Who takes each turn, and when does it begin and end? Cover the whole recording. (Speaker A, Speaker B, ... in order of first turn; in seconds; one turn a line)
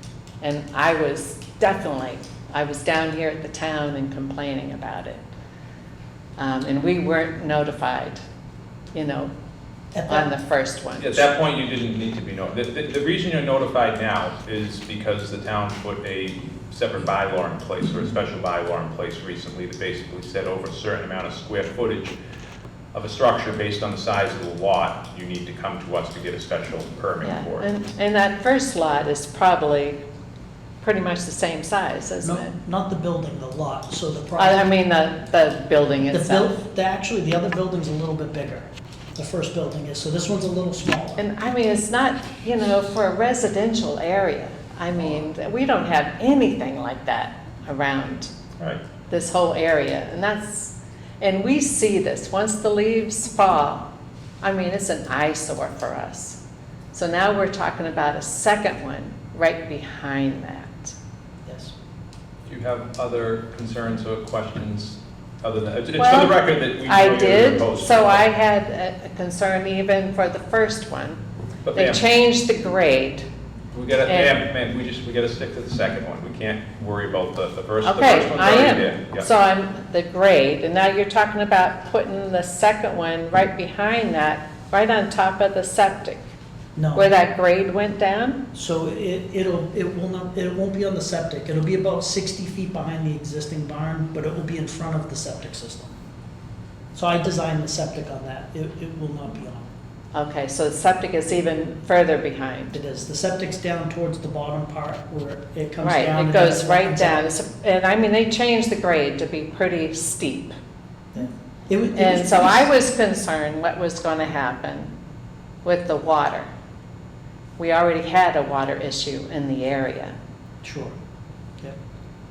Speaker A: 0.4-5.2
Speaker A: 6.4-8.2
Speaker A: 8.9-9.3
Speaker B: 9.9-10.3
Speaker A: 10.1-11.3
Speaker C: 11.0-22.1
Speaker C: 22.9-27.7
Speaker A: 27.2-30.0
Speaker A: 30.8-32.5
Speaker B: 32.2-34.6
Speaker A: 34.4-36.5
Speaker B: 36.1-41.2
Speaker A: 41.2-48.3
Speaker A: 49.1-53.9
Speaker A: 54.4-56.4
Speaker A: 56.9-60.9
Speaker B: 61.5-61.7
Speaker C: 62.5-68.3
Speaker A: 66.0-71.2
Speaker C: 71.6-72.0
Speaker A: 71.7-73.2
Speaker C: 73.7-79.3
Speaker A: 74.0-74.4
Speaker A: 77.8-86.3
Speaker B: 86.8-87.1
Speaker A: 86.9-88.4
Speaker B: 88.5-95.9
Speaker B: 96.9-99.7
Speaker A: 100.1-102.7
Speaker B: 102.7-107.2
Speaker A: 105.8-110.5
Speaker B: 111.1-112.7
Speaker A: 111.9-114.9
Speaker A: 115.6-116.5
Speaker A: 117.6-120.2
Speaker B: 120.6-120.9